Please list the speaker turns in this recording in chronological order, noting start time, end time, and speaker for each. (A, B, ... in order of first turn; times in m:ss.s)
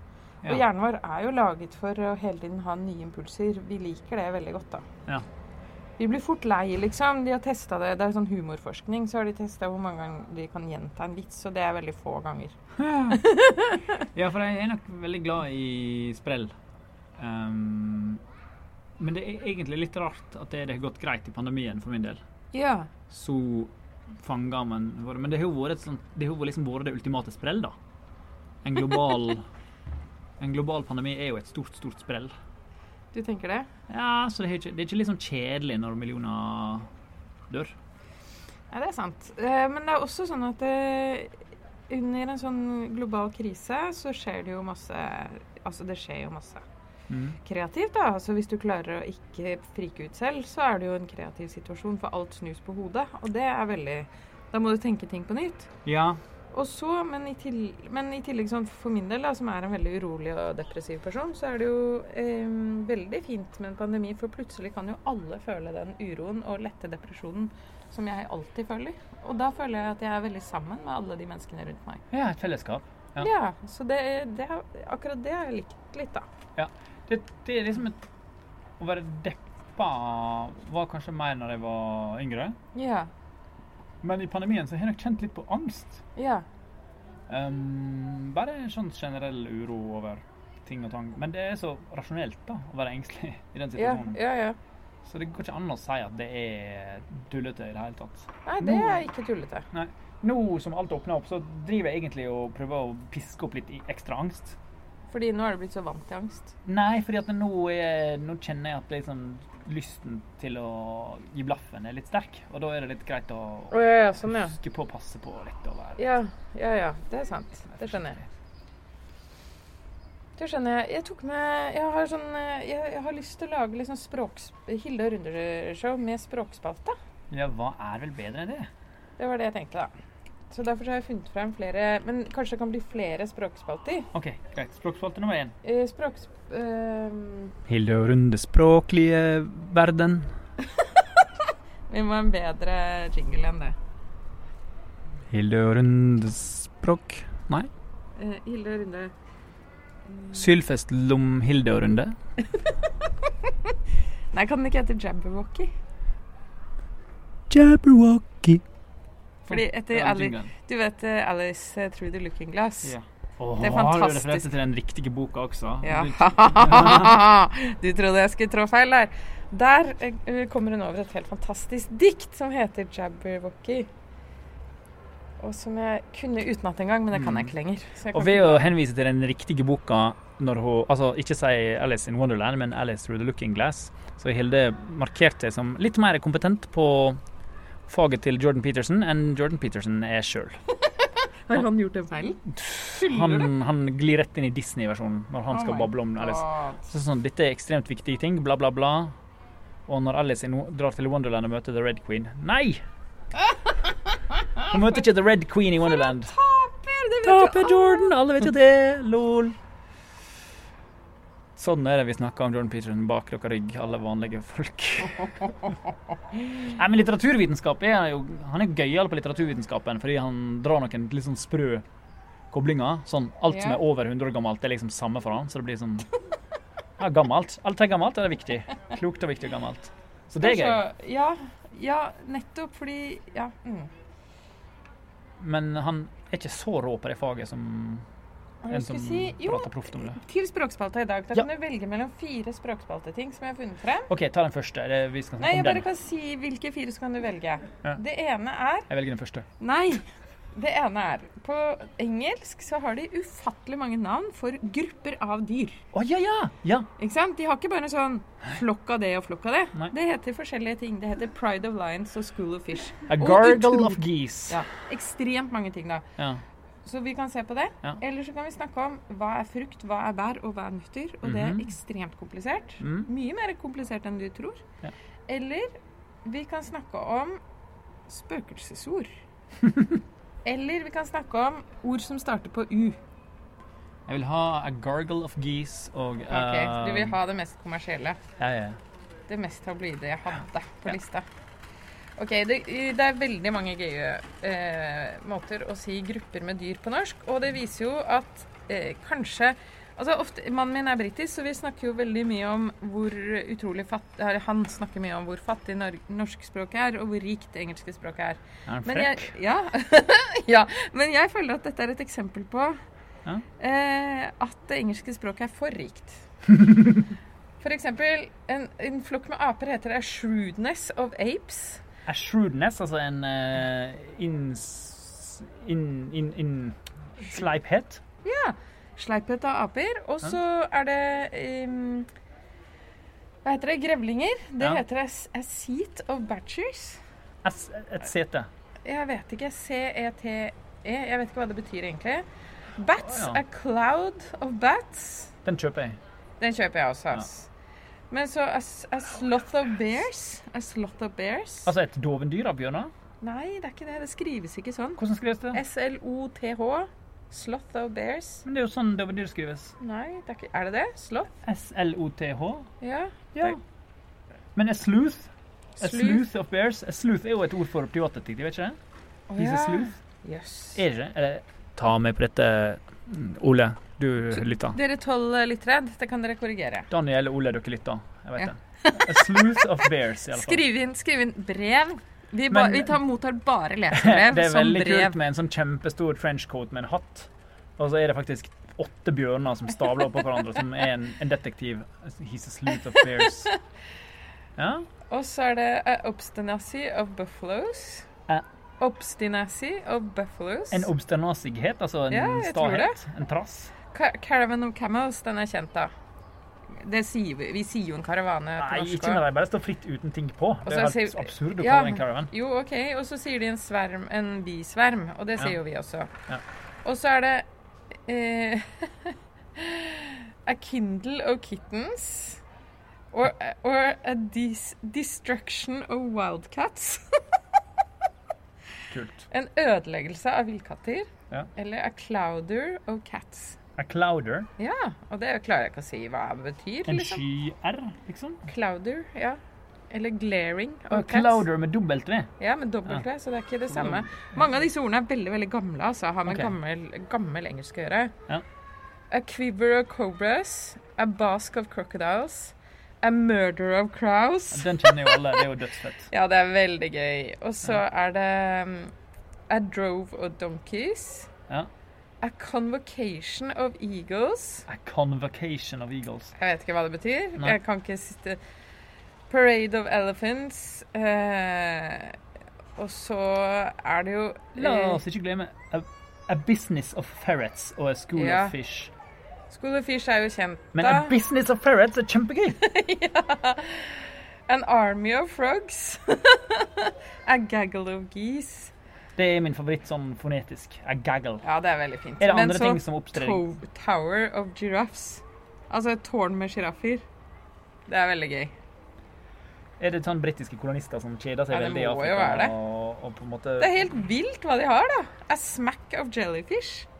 0:00.4-0:04.8 A
0:06.0-0:12.6 A
0:12.8-0:13.2 B
0:13.1-0:14.0 A
0:14.1-0:16.5 B
0:17.2-0:18.2 B
0:19.0-0:22.2 B
0:22.5-0:22.9 A
0:23.1-0:27.8 B
0:28.6-0:29.5 B
0:30.4-0:32.3 B
0:33.1-0:33.7 A
0:33.9-0:36.9 B
0:37.5-0:37.8 B
0:38.7-0:46.6 A
0:47.1-0:47.4 B
0:47.4-0:55.7 A
0:55.8-0:56.2 B
0:56.5-1:12.0 A
1:12.1-1:13.3 B
1:13.2-1:16.2 A
1:16.6-1:18.0 B
1:18.8-1:22.6 B
1:22.7-1:23.1 A
1:24.0-1:26.0 B
1:26.2-1:26.4 A
1:27.3-1:34.2 B
1:33.8-1:34.6 A
1:35.0-1:39.0 B
1:38.4-1:39.7 A
1:39.7-1:44.6 B
1:45.1-1:46.5 A
1:46.6-1:56.0 B
1:53.7-1:54.6 A
1:56.0-1:58.2 A
1:57.8-1:58.2 B
2:00.4-2:07.0 A
2:07.3-2:08.7 B
2:09.2-2:09.9 A
2:10.5-2:14.1 A
2:14.1-2:15.5 B
2:15.6-2:17.6 A
2:17.7-2:20.3 B
2:20.6-2:21.2 A
2:21.9-2:23.8 A
2:25.3-2:27.7 B
2:28.2-2:29.1 A
2:30.3-2:32.2 B
2:33.2-2:33.7 A
2:34.3-2:35.7 A
2:37.5-2:38.6 B
2:39.4-2:40.5 B
2:39.5-2:42.9 A
2:42.8-2:47.2 B
2:43.6-2:44.5 A
2:45.8-2:53.9 A
2:55.4-2:58.7 A
2:57.1-2:57.5 B
2:58.1-3:07.2 B
3:07.9-3:10.6 B
3:11.0-3:13.5 A
3:12.5-3:19.1 B
3:15.5-3:16.8 A
3:19.9-3:22.8 B
3:23.4-3:24.7 A
3:24.6-3:26.3 B
3:25.8-3:28.1 A
3:27.2-3:29.6 B
3:31.6-3:35.7 B
3:36.4-3:41.8 B
3:42.5-3:46.1 B
3:43.5-3:43.8 A
3:47.0-3:50.8 B
3:50.4-3:53.9 A
3:55.4-3:58.0 B
3:58.6-4:04.1 A
3:58.7-4:00.2 B
4:04.1-4:05.8 B
4:05.4-4:08.9 A
4:08.9-4:09.5 B
4:09.6-4:15.8 A
4:15.9-4:16.9 B
4:17.0-4:26.0 A
4:23.1-4:24.6 B
4:26.8-4:34.6 A
4:31.2-4:31.7 B
4:32.8-4:33.1 B
4:35.3-4:37.4 A
4:38.1-4:39.1 A
4:39.6-4:40.0 B
4:40.4-4:43.0 A
4:44.1-4:47.2 B
4:46.3-4:48.2 A
4:48.4-4:48.8 B
4:49.3-4:51.2 A
4:52.2-5:12.8 A
5:08.6-5:09.3 B
5:13.6-5:16.2 A
5:16.5-5:17.0 B
5:17.6-5:21.8 A
5:22.0-5:28.0 B
5:28.2-5:32.1 A
5:33.4-5:37.0 A
5:37.4-5:38.5 B
5:38.8-5:42.2 A
5:42.8-5:45.3 A
5:43.0-5:43.4 B
5:45.4-5:46.0 B
5:46.4-5:47.5 A
5:48.1-5:51.7 A
5:51.6-5:52.9 B
5:53.2-5:55.0 A
5:55.0-5:55.6 B
5:55.5-5:58.4 A
5:58.4-5:59.7 B
5:59.8-6:01.3 A
6:01.4-6:02.7 B
6:02.8-6:03.6 A
6:04.6-6:08.8 B
6:05.8-6:06.2 A
6:09.3-6:10.8 A
6:09.4-6:09.9 B
6:10.7-6:14.8 B
6:14.3-6:16.9 A
6:16.9-6:20.6 B
6:18.4-6:19.6 A
6:20.3-6:25.2 A
6:22.5-6:23.0 B
6:23.9-6:33.5 B
6:32.9-6:33.6 A
6:34.6-6:34.9 B
6:35.1-6:38.1 A
6:38.8-6:40.9 A
6:40.7-6:43.7 B
6:42.1-6:43.0 A
6:43.9-6:45.9 A
6:46.7-6:49.2 A
6:48.6-6:52.3 B
6:50.6-6:56.1 A
6:56.8-6:57.5 A
6:58.1-7:02.4 A
7:03.1-7:07.2 A
7:08.9-7:09.2 B
7:09.3-7:13.6 A
7:13.8-7:14.5 B
7:14.6-7:17.2 A
7:16.8-7:18.4 B
7:18.4-7:19.4 A
7:19.9-7:21.4 A
7:20.9-7:22.3 B
7:22.4-7:28.1 A
7:23.7-7:24.1 B
7:26.3-7:26.5 B
7:29.1-7:35.5 A
7:34.5-7:36.1 B
7:36.1-7:38.9 A
7:39.5-7:41.3 A
7:42.2-7:44.6 A
7:44.7-7:46.3 B
7:46.4-7:48.4 A
7:49.3-7:52.2 A
7:52.8-7:55.0 A
7:54.6-7:58.9 B
7:58.1-7:58.6 A
7:59.5-8:01.2 A
8:00.7-8:02.6 B
8:02.5-8:08.7 A
8:09.2-8:11.4 B
8:11.4-8:17.0 A
8:12.2-8:13.4 B
8:17.9-8:18.5 A
8:19.8-8:23.8 B
8:21.5-8:22.5 A
8:23.6-8:26.9 A